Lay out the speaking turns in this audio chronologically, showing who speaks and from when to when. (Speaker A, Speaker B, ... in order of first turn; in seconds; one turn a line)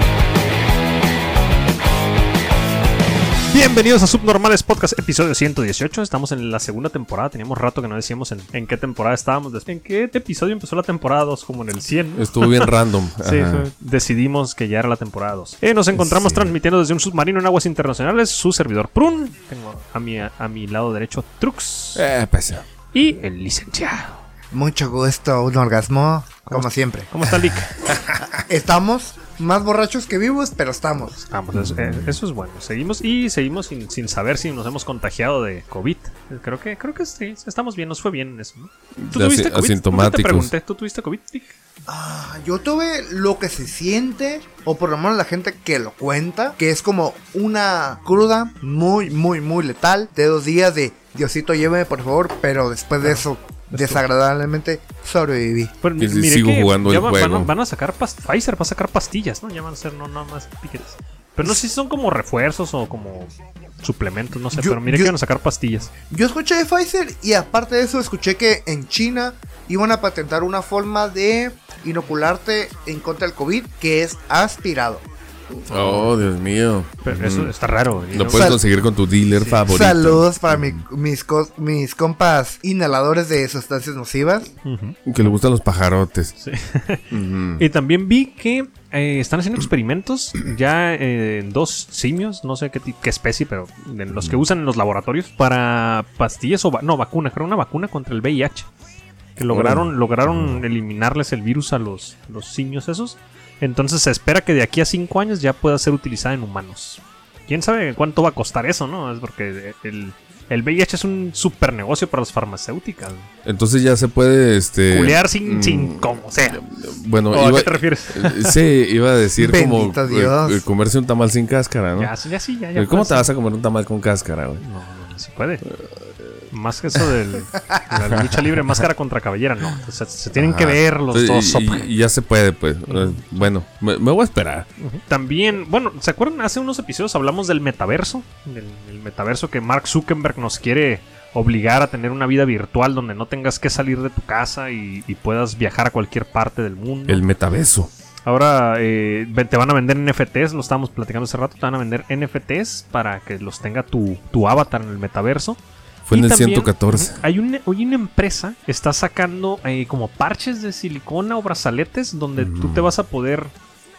Speaker A: 3.5-22.1
Speaker B: 12.1-13.7
Speaker B: 15.9-16.5
Speaker B: 21.9-22.6
Speaker A: 22.9-24.2
Speaker C: 24.5-27.1
Speaker A: 26.5-28.0
Speaker B: 27.2-28.2
Speaker C: 28.2-31.1
Speaker A: 31.1-41.5
Speaker B: 31.5-32.2
Speaker B: 39.0-40.5
Speaker C: 41.9-55.7
Speaker A: 53.7-54.0
Speaker A: 55.8-65.9
Speaker B: 56.0-57.5
Speaker C: 64.5-65.1
Speaker C: 66.1-75.0
Speaker B: 75.7-77.5
Speaker A: 75.7-76.1
Speaker A: 77.0-78.5
Speaker B: 78.1-80.8
Speaker C: 78.3-78.6
Speaker A: 79.3-79.6
Speaker C: 79.7-84.5
Speaker A: 84.6-85.0
Speaker B: 85.0-86.3
Speaker A: 86.4-98.7
Speaker B: 87.1-87.6
Speaker A: 99.3-113.3
Speaker B: 99.5-100.6
Speaker B: 113.4-122.1
Speaker A: 114.9-116.6
Speaker A: 117.3-118.5
Speaker C: 119.4-120.6
Speaker A: 122.0-123.3
Speaker B: 122.8-124.6
Speaker A: 124.6-125.6
Speaker B: 125.7-126.5
Speaker A: 126.5-131.9
Speaker B: 128.0-128.6
Speaker B: 130.3-134.7
Speaker A: 132.9-133.2
Speaker A: 134.8-147.2
Speaker B: 147.1-147.9
Speaker A: 148.2-163.5
Speaker B: 156.1-157.2
Speaker B: 162.4-162.9